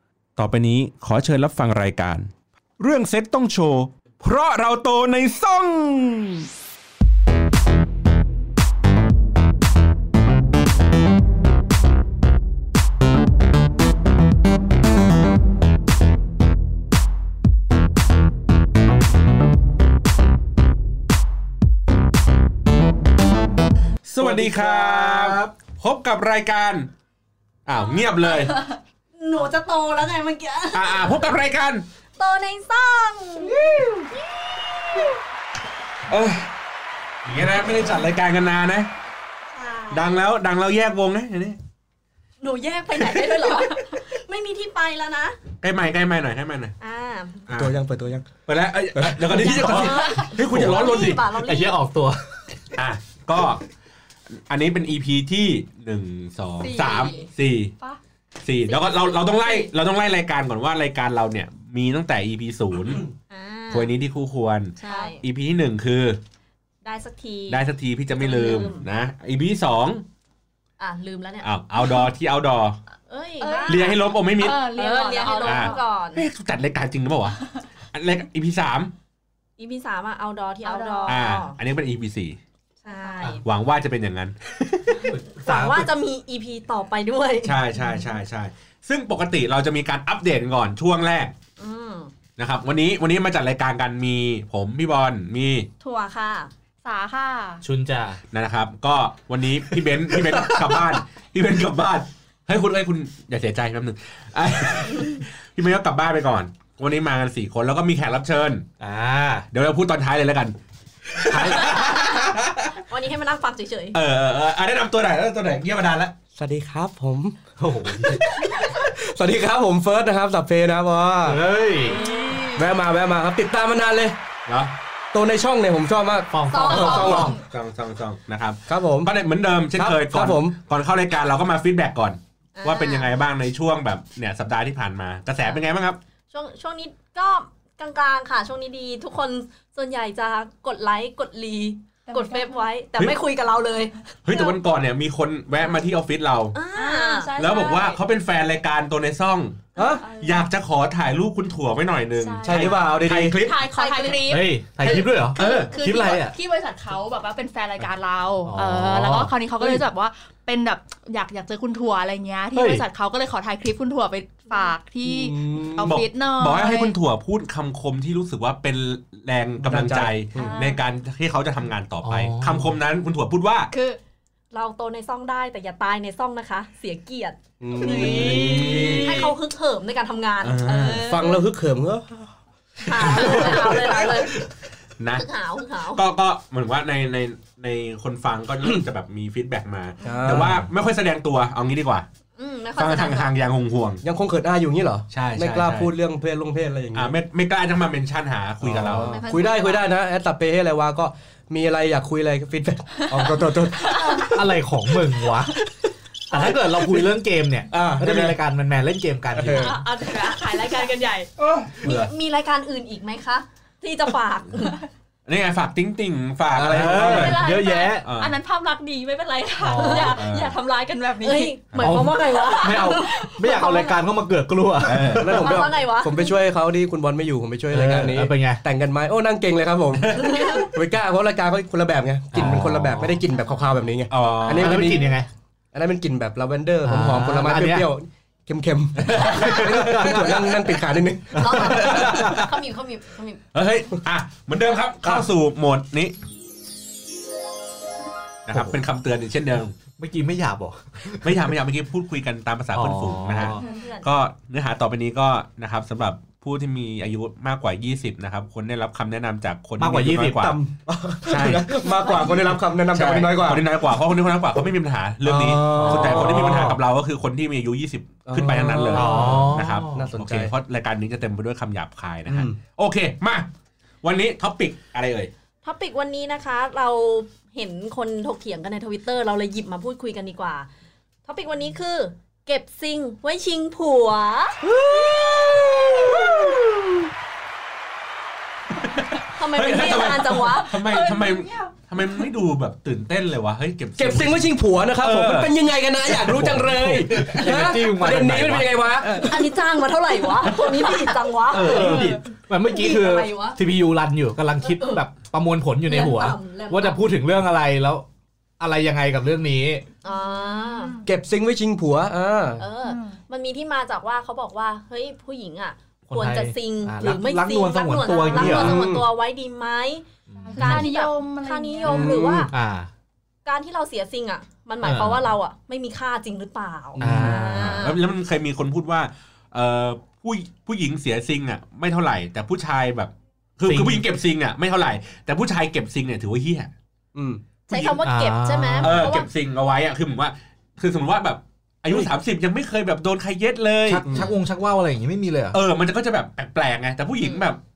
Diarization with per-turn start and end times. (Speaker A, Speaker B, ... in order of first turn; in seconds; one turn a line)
Speaker A: 0.3-6.5
Speaker A: 24.1-26.9
Speaker B: 24.2-25.5
Speaker A: 27.6-28.5
Speaker C: 29.2-31.2
Speaker A: 30.7-31.8
Speaker C: 32.2-33.7
Speaker B: 33.5-34.2
Speaker C: 34.9-35.1
Speaker A: 36.1-36.5
Speaker A: 37.2-38.9
Speaker C: 39.5-40.2
Speaker A: 39.9-41.6
Speaker C: 42.4-45.4
Speaker D: 43.3-43.8
Speaker A: 45.6-46.7
Speaker C: 46.8-47.4
Speaker A: 47.5-47.8
Speaker E: 47.5-48.3
Speaker A: 48.5-51.3
Speaker E: 48.9-50.8
Speaker C: 49.4-51.9
Speaker D: 49.9-50.3
Speaker B: 50.7-52.2
Speaker A: 52.8-53.6
Speaker A: 54.3-57.7
Speaker D: 56.6-57.3
Speaker A: 58.4-63.1
Speaker C: 58.9-59.2
Speaker D: 59.4-59.7
Speaker C: 63.3-63.9
Speaker A: 63.7-66.2
Speaker C: 64.8-65.2
Speaker C: 66.8-67.6
Speaker A: 67.5-70.0
Speaker C: 68.1-68.8
Speaker C: 70.8-71.5
Speaker A: 71.4-72.8
Speaker C: 73.1-76.3
Speaker D: 73.4-75.8
Speaker A: 73.7-74.6
Speaker A: 75.3-77.4
Speaker A: 77.9-78.9
Speaker C: 79.6-81.6
Speaker D: 80.6-81.2
Speaker A: 81.0-82.4
Speaker C: 82.8-83.4
Speaker A: 83.4-85.1
Speaker B: 85.0-85.9
Speaker C: 85.4-87.6
Speaker A: 87.4-91.3
Speaker C: 91.6-92.1
Speaker A: 92.4-95.7
Speaker C: 95.8-96.5
Speaker D: 96.8-97.6
Speaker B: 97.6-98.2
Speaker A: 98.3-108.6
Speaker B: 100.1-100.9
Speaker B: 108.8-109.5
Speaker A: 109.5-110.5
Speaker A: 111.1-112.7
Speaker B: 111.3-111.8
Speaker C: 111.7-112.3
Speaker C: 112.9-114.0
Speaker A: 113.9-116.1
Speaker E: 116.3-117.4
Speaker B: 117.6-118.2
Speaker E: 118.5-121.4
Speaker B: 121.2-122.0
Speaker C: 121.8-122.6
Speaker D: 121.9-122.5
Speaker E: 122.5-124.2
Speaker A: 124.5-124.7
Speaker E: 125.1-127.3
Speaker B: 126.3-127.4
Speaker C: 126.5-127.3
Speaker D: 126.5-127.4
Speaker A: 127.3-136.0
Speaker E: 128.7-129.1
Speaker E: 129.7-130.6
Speaker C: 132.6-133.1
Speaker C: 136.3-144.6
Speaker D: 142.1-142.7
Speaker A: 144.2-146.6
Speaker C: 146.5-147.3
Speaker D: 146.7-148.0
Speaker A: 147.4-149.6
Speaker E: 149.8-150.0
Speaker D: 149.8-150.5
Speaker A: 150.1-153.6
Speaker D: 152.2-166.9
Speaker E: 152.4-153.4
Speaker C: 153.7-154.2
Speaker B: 154.1-156.3
Speaker A: 155.3-155.7
Speaker B: 158.4-159.8
Speaker B: 162.5-162.8
Speaker E: 165.0-165.9
Speaker A: 165.8-173.7
Speaker E: 169.6-170.6
Speaker D: 170.3-170.8
Speaker B: 172.0-172.7
Speaker D: 173.7-174.0
Speaker C: 174.5-181.0
Speaker E: 177.6-179.2
Speaker D: 177.8-179.3
Speaker A: 177.9-179.3
Speaker A: 180.4-181.1
Speaker D: 180.6-181.4
Speaker E: 180.9-182.3
Speaker C: 182.8-184.3
Speaker E: 182.9-184.0
Speaker A: 185.0-185.2
Speaker C: 185.1-186.0
Speaker A: 185.9-192.1
Speaker E: 190.0-190.7
Speaker C: 192.4-193.3
Speaker A: 192.8-194.0
Speaker E: 194.0-197.1
Speaker A: 195.1-195.9
Speaker A: 196.9-199.2
Speaker E: 198.6-204.4
Speaker D: 199.0-199.8
Speaker C: 199.1-199.6
Speaker D: 203.1-204.3
Speaker B: 204.2-205.5
Speaker B: 206.3-209.7
Speaker E: 207.7-208.4
Speaker E: 209.3-209.8
Speaker D: 209.4-211.3
Speaker A: 211.4-212.1
Speaker C: 211.8-214.8
Speaker A: 215.2-217.5
Speaker E: 216.5-217.4
Speaker B: 216.7-218.0
Speaker D: 217.0-221.6
Speaker A: 218.1-218.3
Speaker B: 219.6-220.2
Speaker A: 220.0-220.6
Speaker C: 221.2-223.2
Speaker A: 221.7-222.1
Speaker B: 221.8-225.7
Speaker D: 222.4-224.0
Speaker A: 224.8-225.4
Speaker E: 225.1-235.2
Speaker C: 225.2-226.2
Speaker B: 227.7-228.6
Speaker C: 230.2-230.6
Speaker B: 232.3-232.7
Speaker A: 232.4-233.1
Speaker A: 234.1-234.9
Speaker B: 234.4-235.3
Speaker E: 235.7-242.1
Speaker B: 236.8-237.8
Speaker A: 239.0-239.9
Speaker B: 239.5-240.6
Speaker C: 241.3-243.4
Speaker B: 241.3-242.4
Speaker A: 241.6-242.4
Speaker A: 243.5-246.2
Speaker A: 248.4-249.7
Speaker B: 250.0-251.4
Speaker A: 251.2-260.6
Speaker B: 252.7-253.6
Speaker D: 253.6-254.0
Speaker C: 253.6-254.0
Speaker B: 259.8-260.5
Speaker E: 260.4-263.6
Speaker A: 261.3-261.7
Speaker D: 261.9-262.4
Speaker A: 262.9-273.5
Speaker E: 265.2-266.7
Speaker B: 265.7-266.8
Speaker E: 268.3-270.5
Speaker B: 268.9-270.0
Speaker E: 272.3-272.6
Speaker A: 274.0-275.3
Speaker C: 275.6-280.7
Speaker C: 281.2-286.6
Speaker A: 284.8-286.6
Speaker E: 285.5-286.6
Speaker A: 288.7-295.6
Speaker C: 289.4-290.8
Speaker D: 290.6-292.2
Speaker E: 294.0-299.6
Speaker B: 296.1-298.8
Speaker C: 299.2-303.6
Speaker A: 300.6-300.9
Speaker A: 301.5-302.2
Speaker B: 301.5-308.0
Speaker C: 304.6-305.0
Speaker C: 305.8-307.0
Speaker B: 308.6-309.8
Speaker C: 310.0-310.9
Speaker D: 310.1-311.1
Speaker E: 311.0-312.6
Speaker C: 312.6-320.0
Speaker D: 312.8-313.2
Speaker B: 316.1-318.8
Speaker E: 318.3-319.1
Speaker B: 320.3-320.9
Speaker D: 320.4-322.2
Speaker C: 320.6-322.5
Speaker E: 321.8-322.5
Speaker B: 322.5-322.9
Speaker C: 323.4-328.0
Speaker B: 324.8-325.2
Speaker E: 327.0-327.3
Speaker B: 327.0-327.8
Speaker A: 327.1-336.7
Speaker B: 333.7-334.0
Speaker E: 337.1-337.4
Speaker C: 337.7-339.3
Speaker A: 337.7-338.0
Speaker B: 338.0-339.1
Speaker A: 338.8-344.3
Speaker B: 343.9-345.6
Speaker E: 344.0-344.3
Speaker A: 345.5-347.6
Speaker C: 347.2-347.5